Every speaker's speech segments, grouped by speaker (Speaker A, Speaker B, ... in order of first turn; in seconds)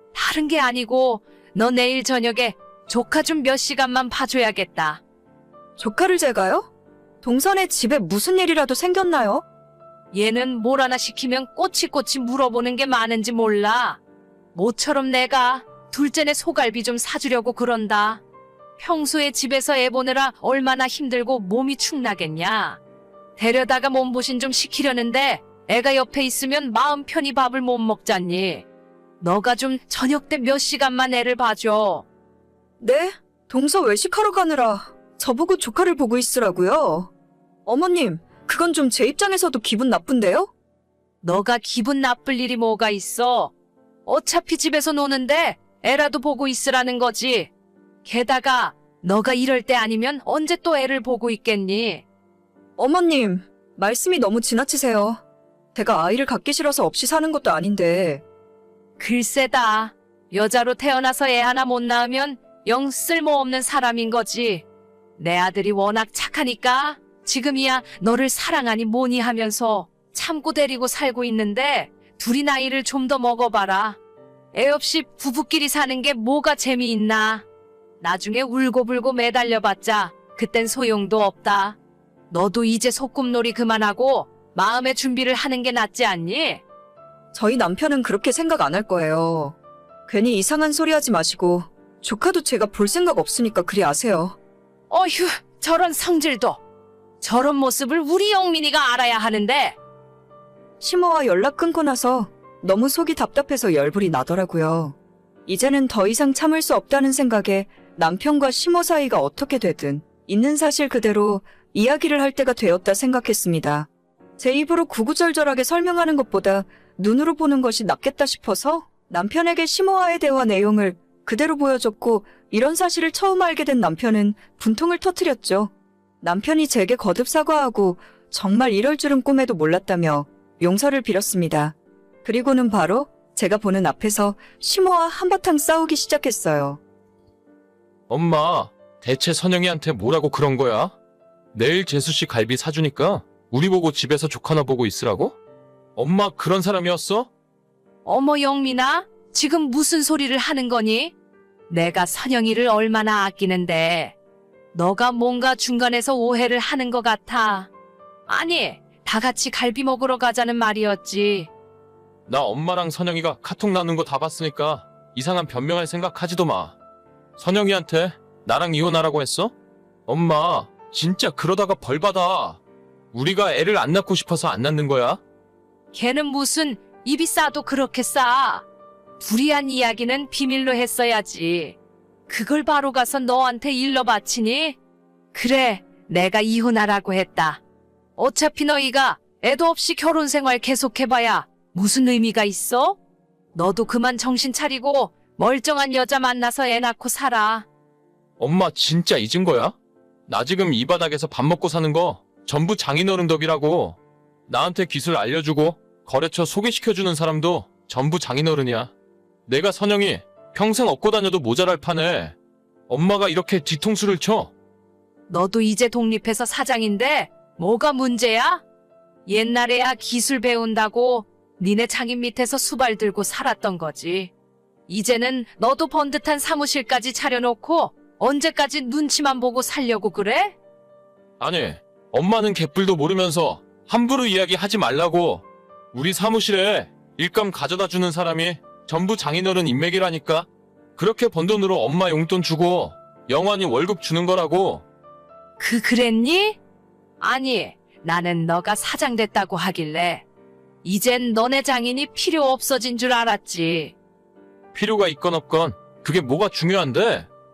Speaker A: 0.1-5.0, 10.1-14.0, 14.6-18.2, 18.8-22.8, 23.4-28.6, 29.2-32.1, 41.2-43.5, 44.1-47.5, 48.0-52.0, 59.0-64.7, 65.2-74.0, 74.5-77.5, 78.0-81.8, 82.3-86.6, 94.9-96.6, 97.2-99.8, 148.1-151.1, 151.7-154.2, 154.7-157.7, 158.3-161.5, 175.9-178.7, 179.2-181.8, 182.3-184.8, 185.3-187.6, 188.2-193.0, 193.6-197.7, 215.3-218.6, 219.3-224.3, 224.9-230.6, 245.6-246.6, 247.2-250.2, 250.8-253.9
Speaker B: 5.8-6.7, 7.2-9.4, 32.8-37.1, 37.7-40.5, 52.8-55.2, 55.8-58.2, 87.3-94.4, 100.8-105.0, 105.5-136.8
Speaker C: 138.1-140.9, 141.5-145.4, 146.0-147.3, 162.3-166.8, 167.4-169.5, 170.1-172.6, 173.1-175.2, 198.4-199.8, 200.3-208.9, 209.5-212.3, 212.9-214.5, 231.4-244.8, 254.7-257.3